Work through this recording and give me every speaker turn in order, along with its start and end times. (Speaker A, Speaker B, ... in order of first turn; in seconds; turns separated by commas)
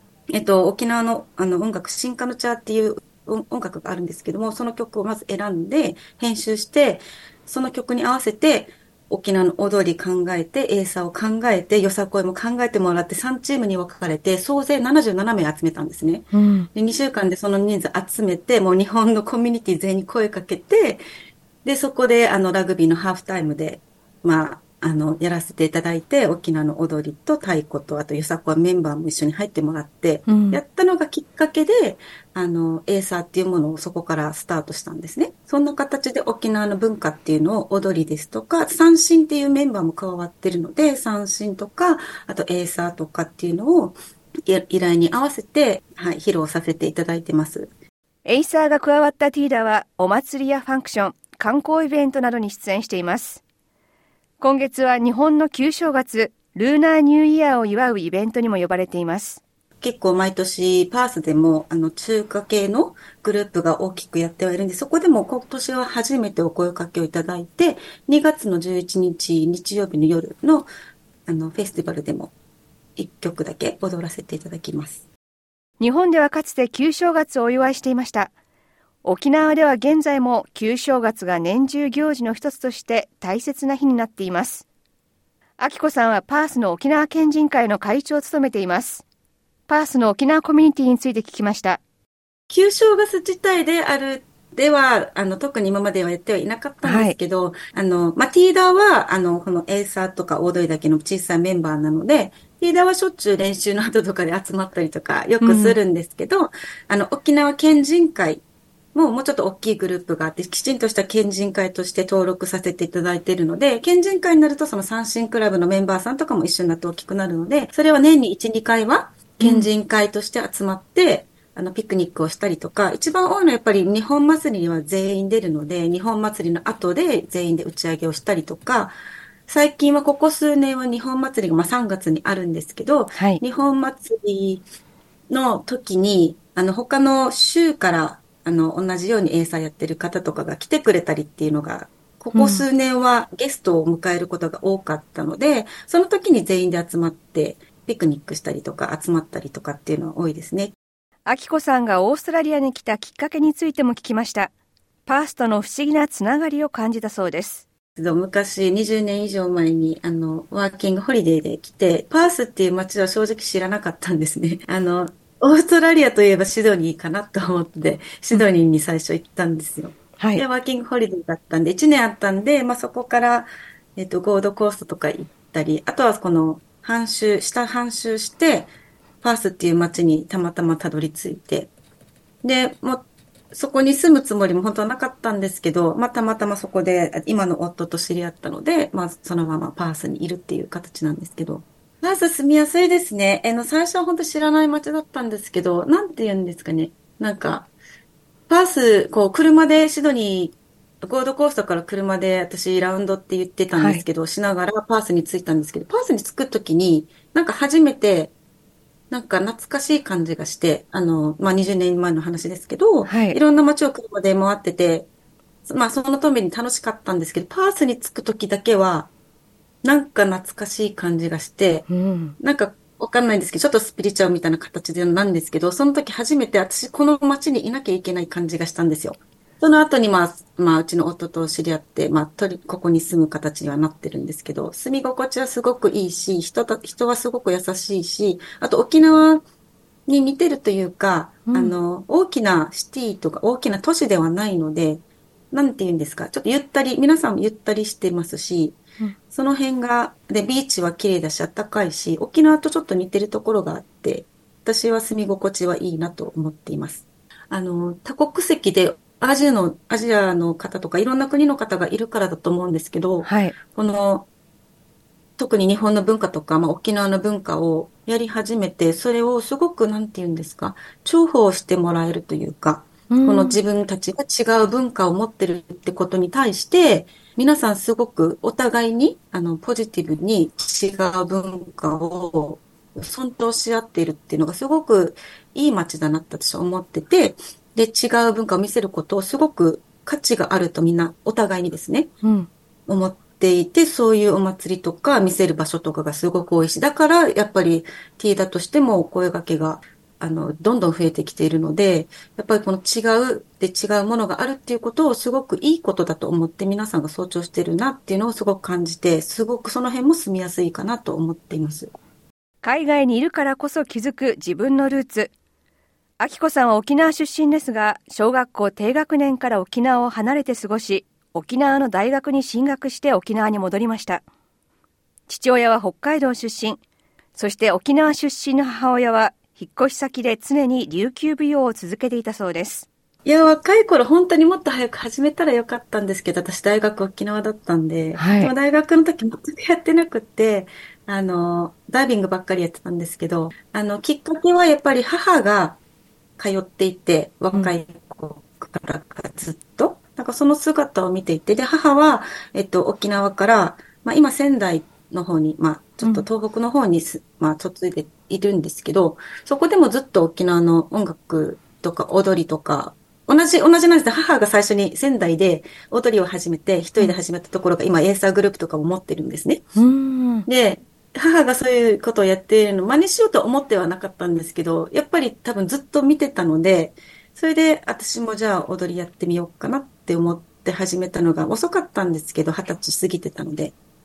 Speaker A: 0.3-21.0, Speaker B: 16.3-16.7, Speaker A: 21.6-47.7, Speaker B: 30.3-30.6, Speaker B: 48.2-53.4, Speaker B: 54.4-59.4, Speaker A: 59.8-70.7, Speaker A: 71.3-72.3, Speaker A: 73.0-75.1, Speaker B: 75.8-78.3, Speaker B: 79.0-84.7, Speaker B: 85.6-89.0, Speaker B: 89.7-91.8, Speaker A: 92.5-108.4, Speaker B: 96.8-97.2, Speaker B: 105.4-105.8, Speaker A: 108.9-129.0, Speaker B: 119.4-119.7, Speaker A: 129.5-134.7, Speaker B: 133.1-133.4, Speaker A: 135.3-150.8, Speaker B: 142.3-142.7, Speaker B: 151.2-154.5, Speaker B: 155.1-157.7, Speaker A: 158.0-181.7, Speaker B: 170.2-170.4, Speaker A: 182.4-197.7, Speaker A: 198.5-208.3, Speaker B: 203.7-204.0, Speaker A: 209.1-215.1, Speaker B: 213.1-213.4, Speaker A: 215.7-219.1, Speaker A: 219.8-221.9, Speaker B: 221.9-222.3, Speaker A: 222.4-239.4, Speaker A: 240.1-264.3, Speaker B: 241.5-241.8, Speaker B: 263.2-263.6, Speaker A: 265.4-292.1, Speaker B: 273.1-273.6, Speaker B: 292.2-292.5, Speaker A: 292.9-311.9, Speaker B: 312.6-315.3, Speaker B: 316.2-324.2, Speaker B: 325.3-326.8, Speaker B: 327.4-332.9, Speaker A: 333.2-345.8, Speaker B: 338.1-338.5, Speaker A: 346.4-369.7, Speaker B: 369.8-370.5, Speaker A: 370.5-383.8